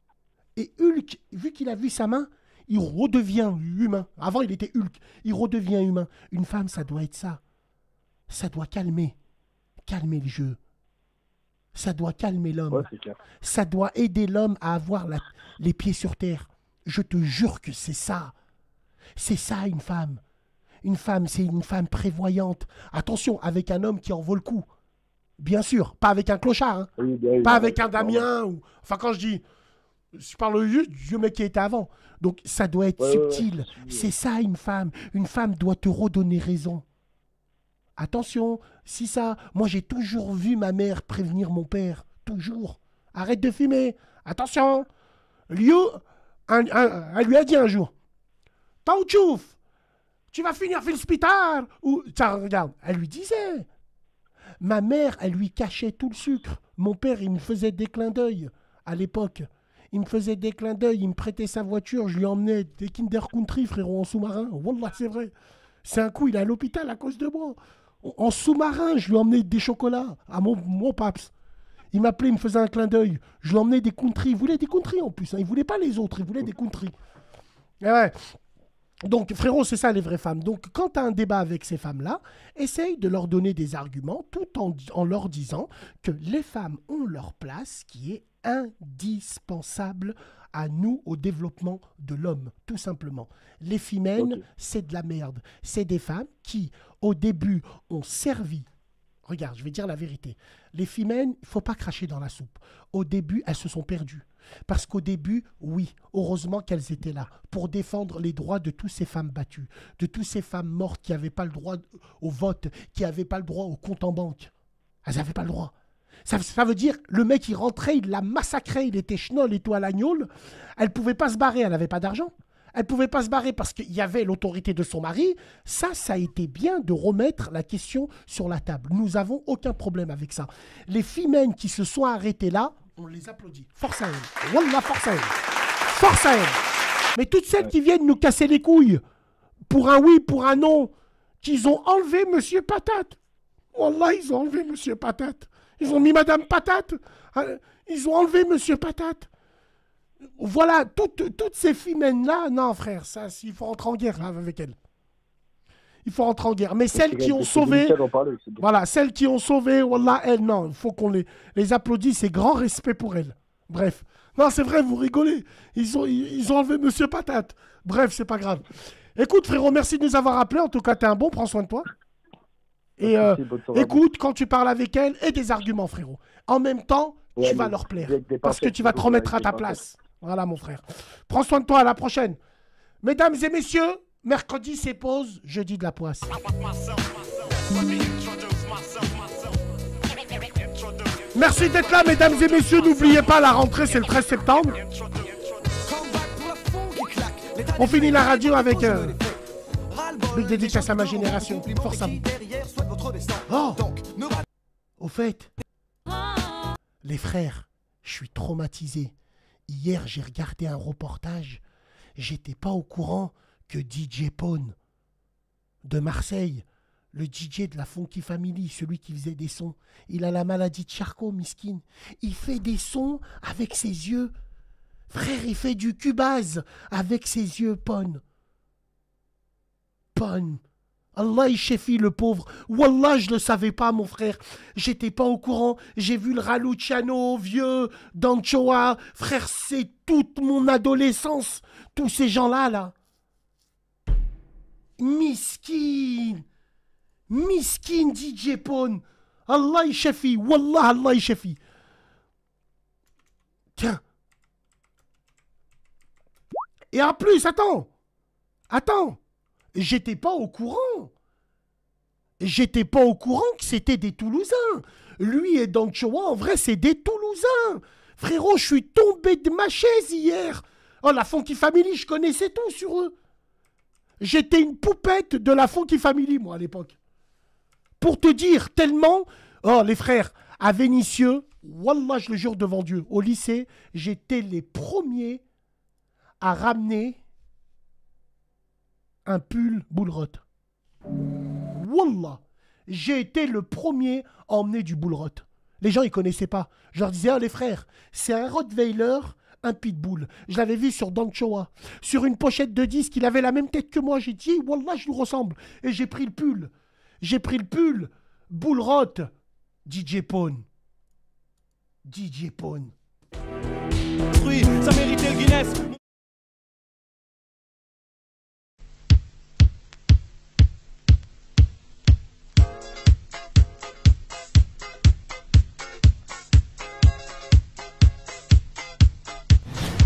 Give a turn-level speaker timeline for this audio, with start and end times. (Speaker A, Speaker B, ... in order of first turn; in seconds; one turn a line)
Speaker A: 0.6-7.4
Speaker A: 8.3-9.1
Speaker A: 9.8-10.6
Speaker A: 11.7-12.9
Speaker B: 12.7-13.2
Speaker A: 13.4-18.3
Speaker A: 19.2-20.2
Speaker A: 20.8-24.6
Speaker A: 25.4-26.9
Speaker B: 27.0-28.3
Speaker A: 27.4-29.4
Speaker A: 30.1-36.8
Speaker B: 33.0-34.1
Speaker A: 38.0-44.9
Speaker A: 45.5-47.9
Speaker A: 48.8-49.5
Speaker A: 50.3-53.7
Speaker A: 54.6-65.3
Speaker A: 65.8-71.3
Speaker A: 71.9-76.9
Speaker A: 77.8-78.2
Speaker A: 79.0-98.7
Speaker B: 94.2-94.4
Speaker A: 99.3-114.5
Speaker A: 115.0-115.7
Speaker A: 116.3-135.3
Speaker A: 135.9-136.6
Speaker A: 137.2-139.0
Speaker A: 139.7-143.2
Speaker A: 143.7-149.3
Speaker A: 150.4-154.8
Speaker A: 156.1-158.0
Speaker B: 156.9-158.7
Speaker A: 158.6-168.6
Speaker A: 169.2-171.9
Speaker A: 173.0-182.4
Speaker B: 173.0-174.0
Speaker B: 177.3-179.8
Speaker A: 183.0-186.3
Speaker A: 191.3-194.8
Speaker A: 197.8-199.2
Speaker A: 200.3-202.2
Speaker A: 203.5-204.0
Speaker A: 205.0-205.5
Speaker A: 207.0-209.1
Speaker A: 209.7-211.6
Speaker A: 212.2-214.7
Speaker A: 215.8-224.3
Speaker A: 225.1-228.2
Speaker A: 230.1-230.6
Speaker A: 231.1-242.9
Speaker A: 245.0-246.4
Speaker A: 247.3-251.6
Speaker A: 253.8-254.0
Speaker A: 256.9-257.9
Speaker A: 258.7-259.2
Speaker A: 259.7-261.1
Speaker A: 262.4-273.1
Speaker A: 274.2-276.9
Speaker A: 278.0-285.4
Speaker A: 286.4-287.2
Speaker A: 289.2-290.4
Speaker A: 291.7-306.7
Speaker A: 307.2-309.3
Speaker A: 309.9-310.6
Speaker A: 312.0-312.9